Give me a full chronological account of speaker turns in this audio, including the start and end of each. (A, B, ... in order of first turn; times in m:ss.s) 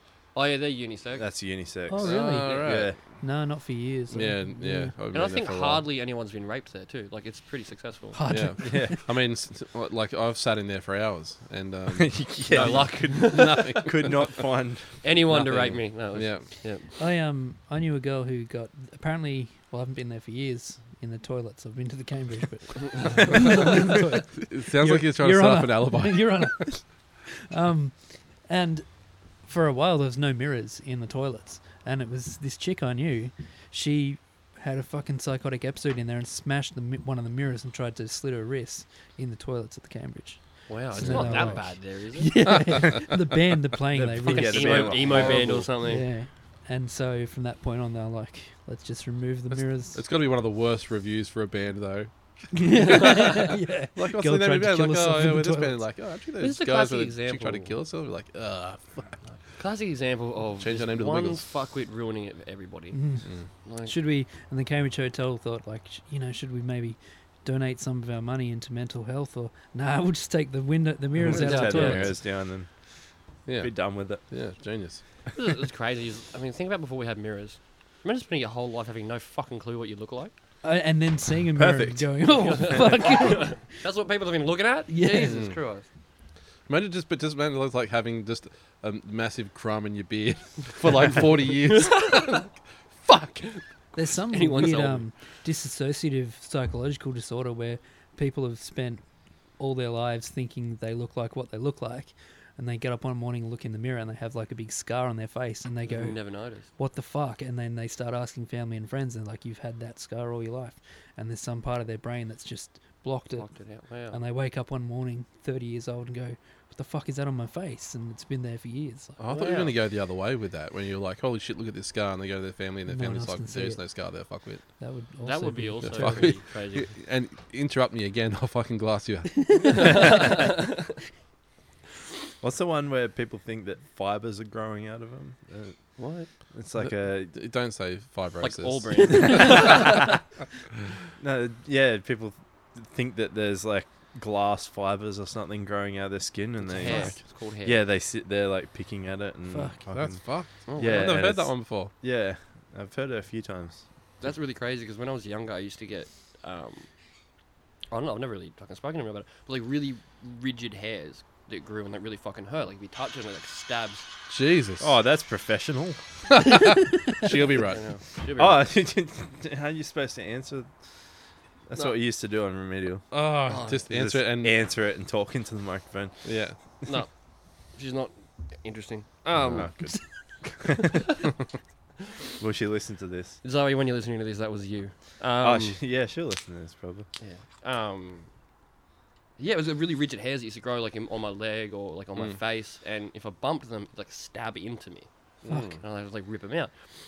0:00.4-0:01.3 A
0:01.2-0:03.0 B
0:01.9-0:04.9 C
0:02.0-0:03.0 D
0:04.1-0:05.8 D
0:05.1-0:08.2 A
0:08.1-0:09.0 C
0:08.3-0:14.4 D
0:08.6-0:09.0 B
0:11.9-0:15.0 B
0:12.5-0:14.2 A
0:15.0-0:16.9 A
0:15.3-0:16.5 D
0:17.0-0:50.0 C
0:24.4-0:26.7 D
0:40.7-0:42.6 A
0:41.0-0:41.6 D
0:42.5-0:43.1 D
0:43.9-0:45.7 B
0:44.2-0:46.1 A
0:49.5-0:59.2 D
0:52.5-0:55.8 C
0:56.4-0:57.8 A
0:59.3-1:03.9 A
1:00.6-1:01.4 D
1:02.9-1:03.3 C
1:03.8-1:12.2 C
1:11.2-1:12.7 B
1:11.3-1:12.1 A
1:11.8-1:12.1 D
1:13.5-1:15.0 D
1:13.6-1:14.2 B
1:15.4-1:20.3 A
1:20.6-1:23.6 C
1:21.6-1:22.6 B
1:22.3-1:25.9 A
1:24.9-1:25.4 C
1:25.2-1:25.6 D
1:26.7-1:33.5 D
1:31.7-1:32.3 A
1:33.9-1:39.0 C
1:34.2-1:35.1 A
1:39.6-1:53.5 C
1:45.9-1:46.7 A
1:53.4-1:54.2 A
1:54.1-1:59.2 C
1:59.2-2:04.6 D
1:59.3-1:59.8 A
2:02.9-2:03.8 C
2:04.8-2:06.4 C
2:05.2-2:07.0 A
2:05.8-2:10.4 D
2:09.7-2:10.6 A
2:12.4-2:17.3 B
2:16.0-2:16.3 A
2:16.8-2:20.1 D
2:18.4-2:20.1 A
2:21.2-2:33.8 B
2:26.7-2:27.8 A
2:26.8-2:27.1 C
2:29.5-2:29.8 C
2:29.9-2:31.9 D
2:30.7-2:31.2 A
2:34.2-2:36.9 A
2:37.9-2:44.1 A
2:44.3-2:44.9 D
2:44.8-2:46.0 B
2:46.3-2:47.8 D
2:47.6-2:48.6 A
2:48.4-2:50.7 B
2:51.7-2:53.1 B
2:53.1-2:54.5 D
2:53.5-2:53.8 A
2:53.9-2:56.2 B
2:56.2-2:56.6 D
2:56.8-2:57.1 A
2:57.7-2:59.7 A
2:59.4-3:01.0 B
3:00.8-3:01.3 A
3:02.4-3:03.4 B
3:03.4-3:05.8 A
3:05.4-3:07.1 B
3:07.2-3:08.3 A
3:09.4-3:16.7 A
3:15.4-3:15.8 D